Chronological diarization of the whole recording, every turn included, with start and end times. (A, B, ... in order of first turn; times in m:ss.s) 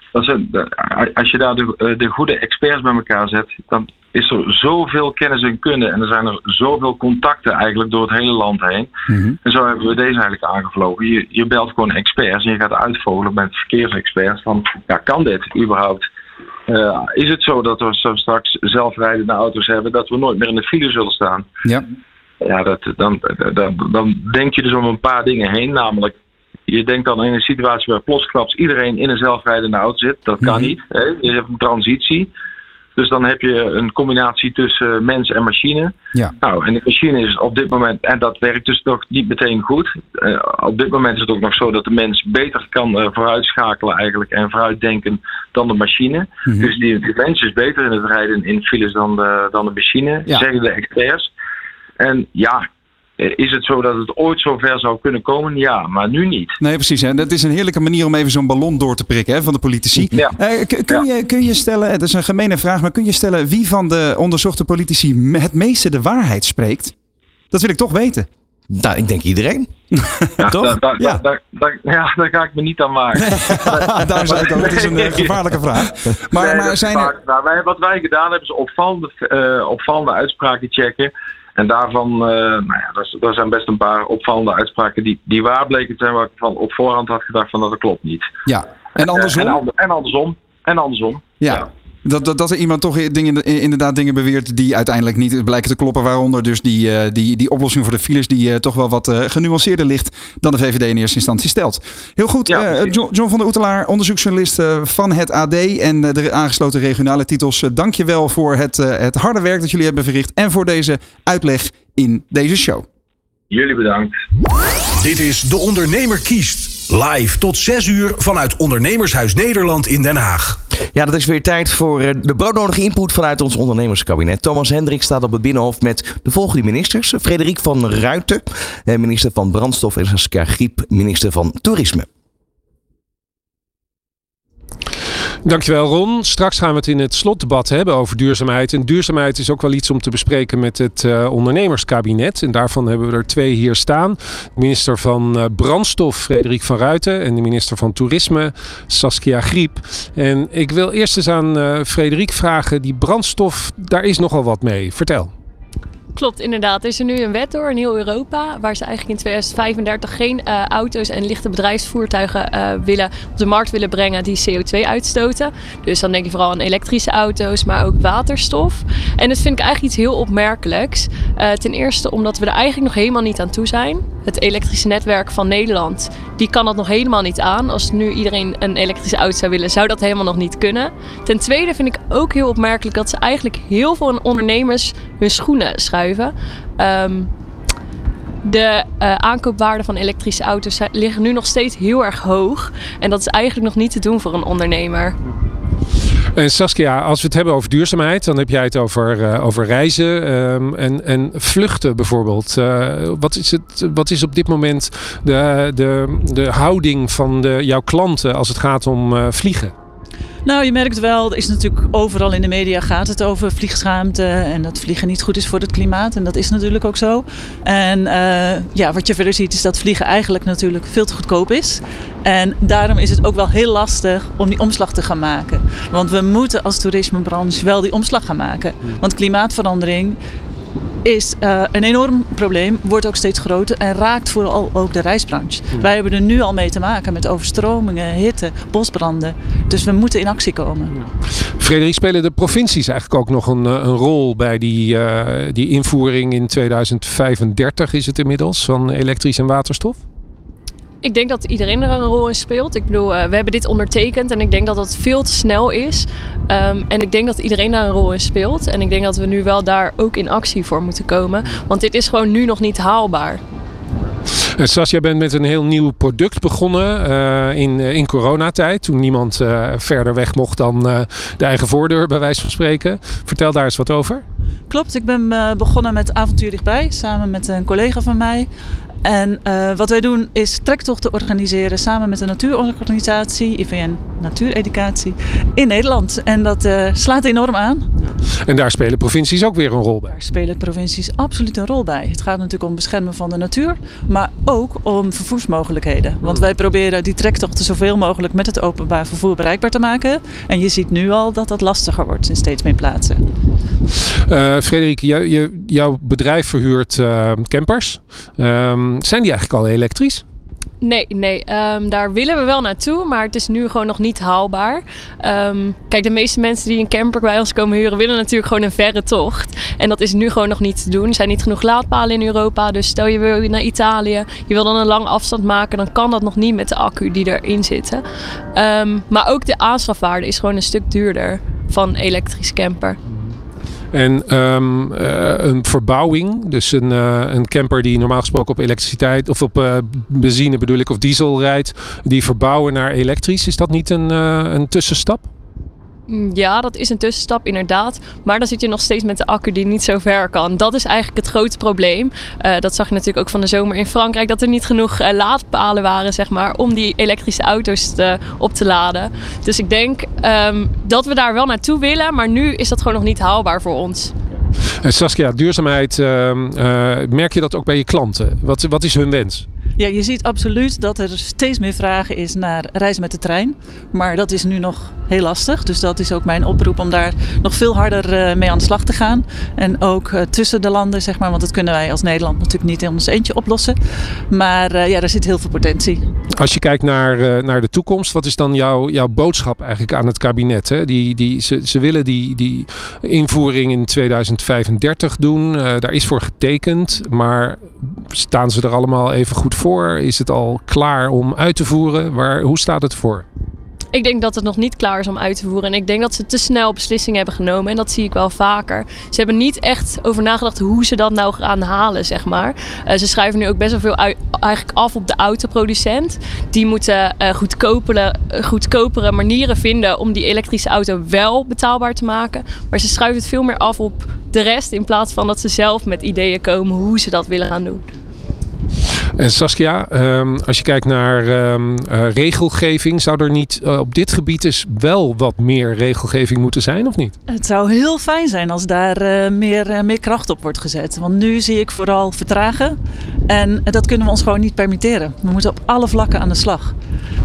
0:00.1-0:08.9 A
0:09.1-0:09.4 B
0:09.4-0:16.0 A
0:16.7-0:21.5 A
0:22.4-0:26.2 A
0:26.7-0:32.3 A
0:30.4-0:30.7 B
0:33.0-0:51.3 A
0:46.5-0:46.7 B
0:52.0-0:52.7 A
0:53.2-0:56.6 A
0:56.6-1:06.9 B
1:00.1-1:00.4 A
1:07.5-1:08.3 B
1:08.7-1:09.7 C
1:10.4-1:15.4 A
1:13.3-1:17.1 B
1:16.3-1:28.3 A
1:28.5-1:29.6 B
1:29.1-1:31.7 A
1:31.4-1:52.9 B
1:42.5-1:42.9 A
1:53.5-1:54.1 A
1:55.0-2:00.6 D
2:00.9-2:12.1 C
2:15.4-2:35.3 E
2:36.1-3:07.3 F
3:08.4-3:15.2 F
3:16.4-3:29.7 E
3:30.4-3:50.2 G
3:51.0-4:01.1 G
4:01.6-4:10.0 E
4:11.0-4:23.4 F
4:24.6-4:34.2 E
4:34.7-4:38.5 G
4:39.0-4:47.9 G
4:48.5-4:50.2 E
4:50.1-5:03.2 G
4:56.2-4:56.5 E
5:04.3-5:10.2 E
5:10.8-5:28.0 F
5:28.6-5:33.0 F
5:33.9-5:45.3 E
5:46.1-6:04.1 F
6:04.8-6:09.5 E
6:09.8-6:23.8 G
6:24.3-6:26.0 G
6:26.3-6:43.3 E
6:43.9-7:07.8 F
7:09.2-7:17.2 E
7:17.3-7:22.8 G
7:23.3-7:26.7 G